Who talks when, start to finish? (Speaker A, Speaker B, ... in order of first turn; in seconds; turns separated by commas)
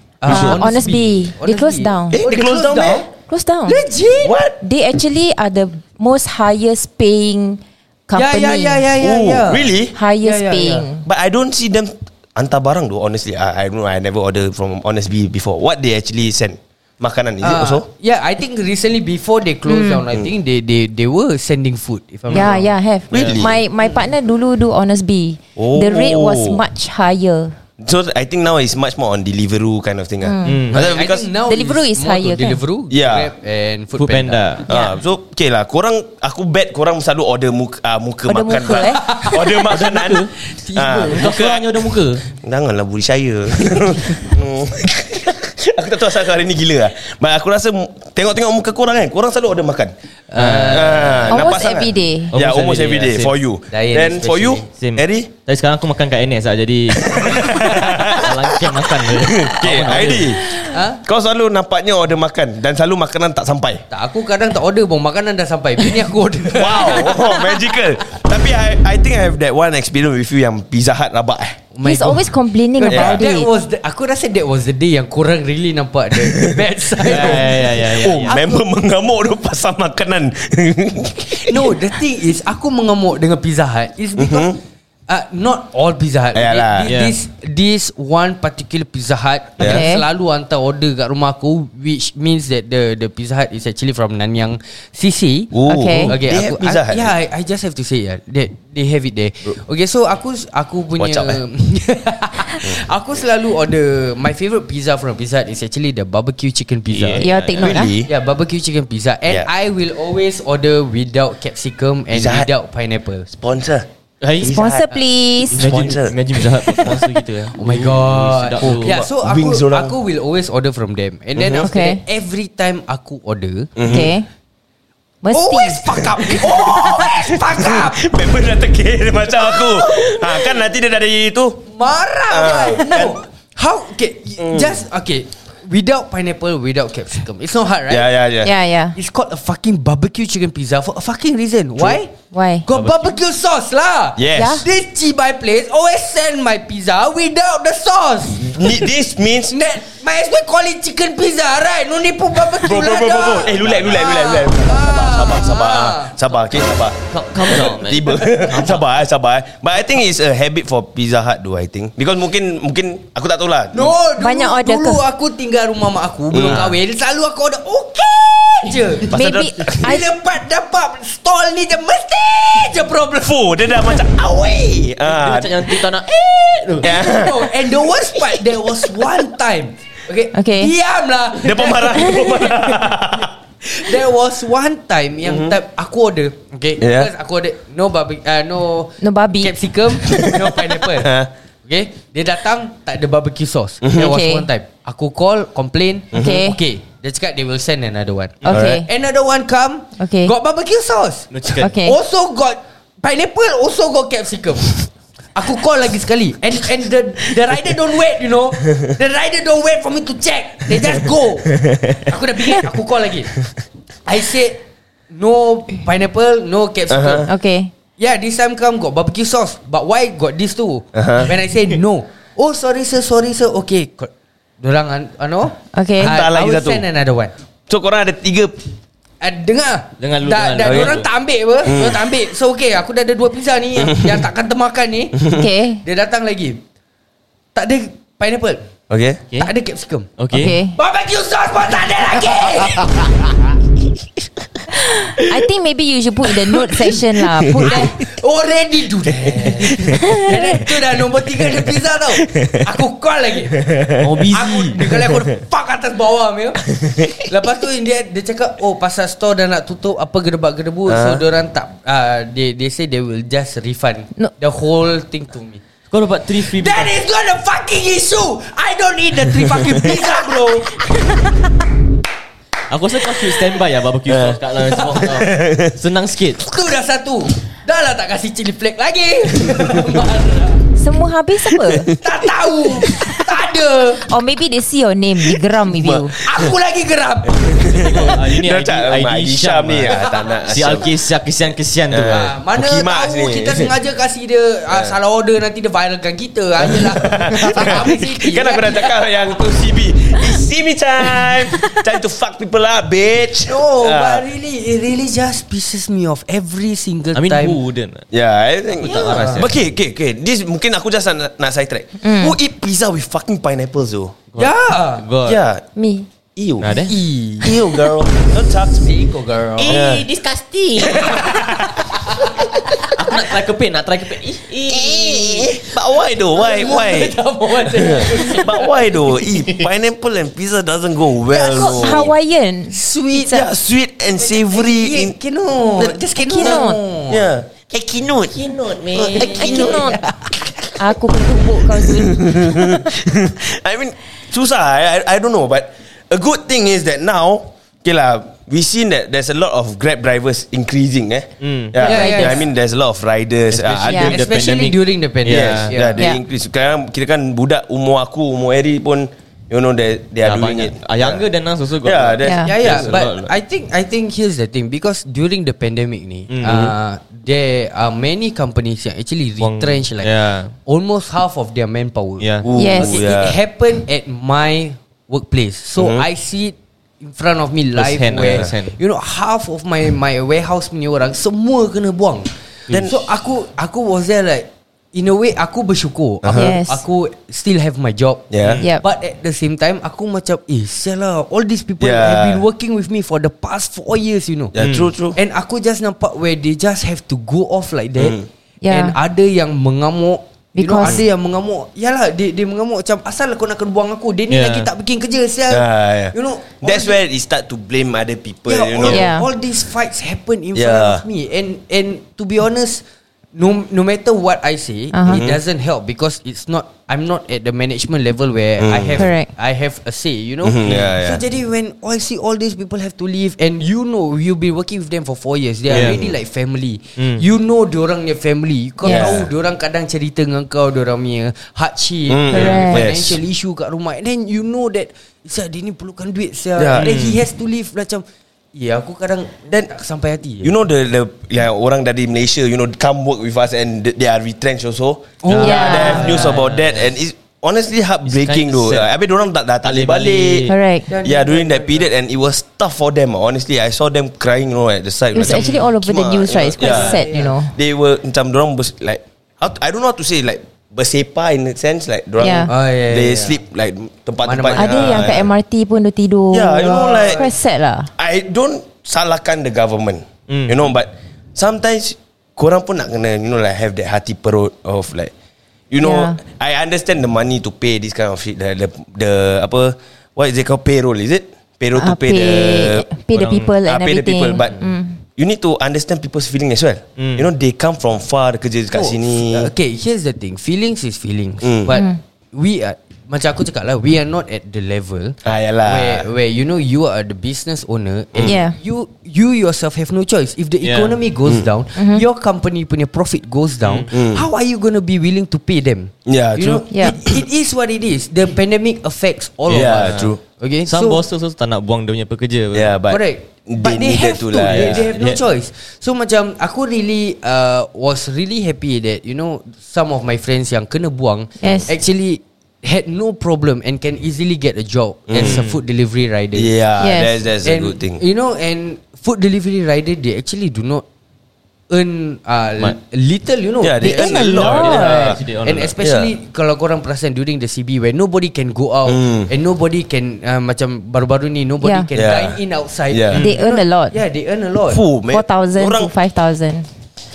Speaker A: 0.2-3.1, Speaker B: 0.3-0.7, Speaker C: 0.3-2.2, Speaker B: 2.1-3.1, Speaker C: 3.3-3.8, Speaker A: 3.7-4.3, Speaker B: 4.2-4.6, Speaker C: 4.6-8.8, Speaker A: 8.1-9.7, Speaker B: 9.0-10.0, Speaker C: 9.9-11.1, Speaker A: 10.2-10.9, Speaker B: 11.1-17.9, Speaker A: 17.4-22.7, Speaker C: 19.7-20.0, Speaker C: 22.3-27.6, Speaker B: 23.1-23.6, Speaker D: 23.1-23.4, Speaker B: 25.6-26.6, Speaker B: 27.8-31.3, Speaker C: 30.2-30.6, Speaker D: 30.4-30.8, Speaker A: 30.7-34.5, Speaker C: 31.4-32.6, Speaker B: 32.9-33.3, Speaker D: 34.0-34.7, Speaker B: 34.7-49.9, Speaker C: 34.7-35.0, Speaker C: 38.3-39.1, Speaker A: 39.0-39.4, Speaker D: 39.6-40.3, Speaker A: 40.4-41.3, Speaker D: 41.1-42.3, Speaker A: 50.3-51.2, Speaker D: 50.4-51.4, Speaker B: 50.6-55.3, Speaker C: 51.3-52.3, Speaker D: 52.3-53.4, Speaker A: 53.7-54.7, Speaker D: 54.8-60.4, Speaker B: 57.0-63.8, Speaker A: 60.7-61.0, Speaker A: 63.9-67.5, Speaker B: 66.5-71.7, Speaker A: 71.7-77.6, Speaker C: 71.8-73.5, Speaker B: 72.8-73.3, Speaker B: 76.2-81.6, Speaker D: 77.0-78.6, Speaker A: 81.4-107.3, Speaker B: 84.2-84.6, Speaker B: 86.3-86.9, Speaker D: 86.8-87.1, Speaker B: 89.6-89.9, Speaker C: 89.6-90.0, Speaker B: 95.5-97.1, Speaker C: 95.7-96.1, Speaker B: 101.0-101.4, Speaker D: 106.9-107.8, Speaker C: 107.2-107.9, Speaker B: 107.6-108.1, Speaker A: 108.1-113.3, Speaker B: 112.1-112.5, Speaker B: 113.3-113.9, Speaker D: 114.2-114.6, Speaker B: 114.4-117.1, Speaker C: 114.4-115.7, Speaker D: 115.5-119.0, Speaker A: 117.5-123.7, Speaker B: 118.6-119.9, Speaker B: 121.4-121.7, Speaker C: 121.6-122.0, Speaker B: 123.8-124.1, Speaker C: 123.8-124.3, Speaker C: 125.2-126.5, Speaker A: 125.3-128.0, Speaker B: 126.2-131.7, Speaker A: 129.4-130.5, Speaker A: 131.7-138.1, Speaker B: 132.3-133.2, Speaker B: 134.4-134.8, Speaker B: 137.9-138.5, Speaker C: 138.4-139.0, Speaker A: 138.9-142.1, Speaker B: 141.8-142.0, Speaker C: 142.3-142.7, Speaker A: 142.7-148.9, Speaker D: 142.7-143.2, Speaker B: 144.2-144.7, Speaker C: 144.3-144.6, Speaker B: 148.4-149.6, Speaker A: 149.5-156.2, Speaker B: 152.5-163.9, Speaker D: 153.5-153.9, Speaker D: 157.1-158.8, Speaker A: 163.7-173.4, Speaker C: 164.2-165.0, Speaker B: 166.3-166.7, Speaker D: 166.4-166.8, Speaker C: 169.1-170.1, Speaker B: 169.1-169.8, Speaker B: 173.2-175.8, Speaker D: 175.0-177.0, Speaker B: 176.8-177.7, Speaker A: 176.8-191.1, Speaker C: 180.3-180.7, Speaker B: 181.4-183.3, Speaker B: 185.2-185.6, Speaker B: 186.8-187.1, Speaker C: 189.0-189.5, Speaker B: 190.8-191.3, Speaker A: 191.7-201.3, Speaker B: 193.8-194.2, Speaker C: 194.0-194.5, Speaker B: 196.1-196.5, Speaker C: 196.1-196.6, Speaker C: 198.4-198.9, Speaker B: 198.5-198.8, Speaker C: 200.0-200.3, Speaker D: 201.3-201.7, Speaker C: 201.6-202.0, Speaker A: 201.8-204.8, Speaker A: 205.3-213.4, Speaker B: 210.8-212.1, Speaker A: 214.1-217.3, Speaker B: 216.9-217.3, Speaker C: 217.3-217.7, Speaker A: 218.0-227.3, Speaker B: 220.9-221.3, Speaker C: 225.7-226.1, Speaker B: 226.0-226.8, Speaker B: 227.7-228.6, Speaker A: 229.2-236.6, Speaker D: 230.0-231.1, Speaker B: 230.7-230.9, Speaker B: 231.7-232.0, Speaker B: 233.8-234.2, Speaker C: 235.3-235.8, Speaker A: 237.6-238.6, Speaker B: 238.9-239.2, Speaker A: 239.3-240.1, Speaker D: 240.2-240.6, Speaker C: 240.3-240.8, Speaker A: 240.7-243.0, Speaker C: 244.8-248.0, Speaker B: 247.2-247.9, Speaker A: 247.6-253.7, Speaker B: 249.2-250.2, Speaker C: 249.9-250.4, Speaker B: 251.2-252.6, Speaker B: 253.5-255.2, Speaker D: 254.0-254.9, Speaker A: 254.3-265.6, Speaker B: 256.7-257.3, Speaker B: 260.9-261.2, Speaker D: 265.9-267.0, Speaker A: 266.4-271.2, Speaker D: 272.7-276.4, Speaker B: 274.1-274.4, Speaker A: 274.6-275.0, Speaker B: 274.9-275.8, Speaker A: 276.4-280.6, Speaker C: 280.8-281.9, Speaker B: 281.4-282.0, Speaker A: 281.9-284.1, Speaker B: 282.8-283.2, Speaker C: 284.0-286.2, Speaker B: 285.6-286.5, Speaker A: 286.2-288.2, Speaker B: 287.3-290.9, Speaker D: 287.9-292.3, Speaker B: 291.9-293.7, Speaker A: 292.0-298.9, Speaker B: 294.7-295.0, Speaker B: 296.6-304.2, Speaker A: 303.4-307.6, Speaker D: 307.1-308.1, Speaker B: 308.1-314.2, Speaker D: 308.8-309.6, Speaker A: 308.8-309.5, Speaker C: 312.0-312.4, Speaker D: 314.3-315.4, Speaker A: 314.4-315.1, Speaker B: 315.2-315.6, Speaker C: 315.8-316.1, Speaker B: 316.4-316.7, Speaker D: 316.6-316.9, Speaker A: 316.7-317.6, Speaker B: 317.4-319.0, Speaker A: 318.8-319.8, Speaker D: 319.6-321.6, Speaker B: 319.7-320.1, Speaker B: 320.8-321.9, Speaker A: 321.9-322.4, Speaker D: 322.8-325.6, Speaker B: 324.7-327.1, Speaker A: 326.3-328.7, Speaker D: 327.7-329.7, Speaker B: 327.8-332.1, Speaker A: 331.3-332.1, Speaker C: 331.4-332.8, Speaker A: 332.7-333.4, Speaker B: 333.3-335.1, Speaker A: 334.2-337.3, Speaker B: 335.8-340.0, Speaker C: 336.1-336.8, Speaker D: 338.3-339.7, Speaker A: 339.1-340.4, Speaker C: 339.1-340.0, Speaker C: 340.8-342.8, Speaker B: 341.7-354.2, Speaker D: 351.4-351.8, Speaker C: 351.8-352.4, Speaker A: 351.8-352.4, Speaker D: 353.5-355.8, Speaker A: 354.1-356.1, Speaker B: 355.3-361.2, Speaker D: 360.2-363.3, Speaker B: 361.8-363.1, Speaker C: 362.2-362.5, Speaker A: 362.4-370.1, Speaker D: 366.3-366.7, Speaker B: 366.4-366.7, Speaker D: 369.4-370.5, Speaker A: 370.7-394.6, Speaker D: 372.2-372.5, Speaker B: 372.4-373.4, Speaker C: 372.5-372.9, Speaker B: 375.8-376.1, Speaker D: 377.8-378.8, Speaker B: 378.2-378.5, Speaker B: 382.7-383.0, Speaker B: 386.2-386.5, Speaker C: 386.3-386.8, Speaker B: 388.3-388.6, Speaker D: 388.4-388.7, Speaker B: 391.8-392.4, Speaker B: 394.5-395.2, Speaker D: 394.6-394.9, Speaker A: 395.1-398.2, Speaker B: 398.0-398.3, Speaker C: 398.6-399.0, Speaker A: 398.7-407.0, Speaker C: 400.6-401.0, Speaker D: 404.3-404.7, Speaker B: 405.5-409.1, Speaker A: 408.5-412.8, Speaker C: 408.9-409.3, Speaker B: 410.6-411.0, Speaker A: 413.4-440.5, Speaker C: 414.9-415.2, Speaker B: 415.1-415.4, Speaker B: 418.6-419.1, Speaker C: 419.0-419.3, Speaker B: 420.4-421.2, Speaker B: 425.7-426.2, Speaker D: 425.7-426.0, Speaker D: 427.0-427.2, Speaker C: 428.8-429.1, Speaker B: 428.9-429.3, Speaker B: 432.1-433.2, Speaker C: 432.3-432.8, Speaker B: 436.6-437.0, Speaker D: 436.8-437.2, Speaker B: 440.4-465.3, Speaker A: 445.2-446.4, Speaker D: 445.3-446.9, Speaker C: 445.4-446.1, Speaker D: 448.1-448.9, Speaker D: 449.6-450.6, Speaker C: 450.5-450.9, Speaker A: 450.9-451.9, Speaker C: 455.1-457.6, Speaker D: 455.2-455.6, Speaker D: 456.6-457.0, Speaker A: 456.6-457.3, Speaker C: 462.2-462.5, Speaker A: 462.5-463.4, Speaker A: 464.2-465.0, Speaker C: 464.6-467.9, Speaker B: 466.3-467.2, Speaker A: 466.6-467.3, Speaker B: 468.0-475.1, Speaker D: 470.3-470.6, Speaker B: 475.7-482.9, Speaker C: 475.8-476.2, Speaker C: 481.8-485.0, Speaker D: 483.1-483.6, Speaker B: 483.6-484.6, Speaker B: 485.2-489.5, Speaker D: 487.0-487.3, Speaker A: 488.7-511.0, Speaker B: 491.4-491.8, Speaker C: 491.7-492.0, Speaker B: 495.2-496.1, Speaker B: 498.1-498.4, Speaker C: 498.2-498.6, Speaker D: 500.6-501.0, Speaker C: 501.8-502.0, Speaker B: 503.9-504.3, Speaker B: 506.1-507.1, Speaker C: 506.7-506.9, Speaker D: 509.5-510.1, Speaker B: 509.5-510.2, Speaker D: 510.7-512.7, Speaker B: 512.5-514.9, Speaker A: 512.9-526.5, Speaker D: 514.5-515.2, Speaker C: 521.4-521.7, Speaker B: 525.1-525.4, Speaker D: 525.2-525.6, Speaker B: 526.3-528.0, Speaker C: 526.8-527.1, Speaker A: 527.4-530.9, Speaker A: 531.7-544.8, Speaker B: 533.6-535.2, Speaker C: 533.8-534.8, Speaker D: 534.2-535.7, Speaker B: 535.8-536.1, Speaker B: 538.9-539.3, Speaker C: 541.6-541.9, Speaker B: 541.9-543.3, Speaker D: 543.1-543.4, Speaker C: 543.2-544.0, Speaker B: 544.7-545.9, Speaker C: 545.1-546.7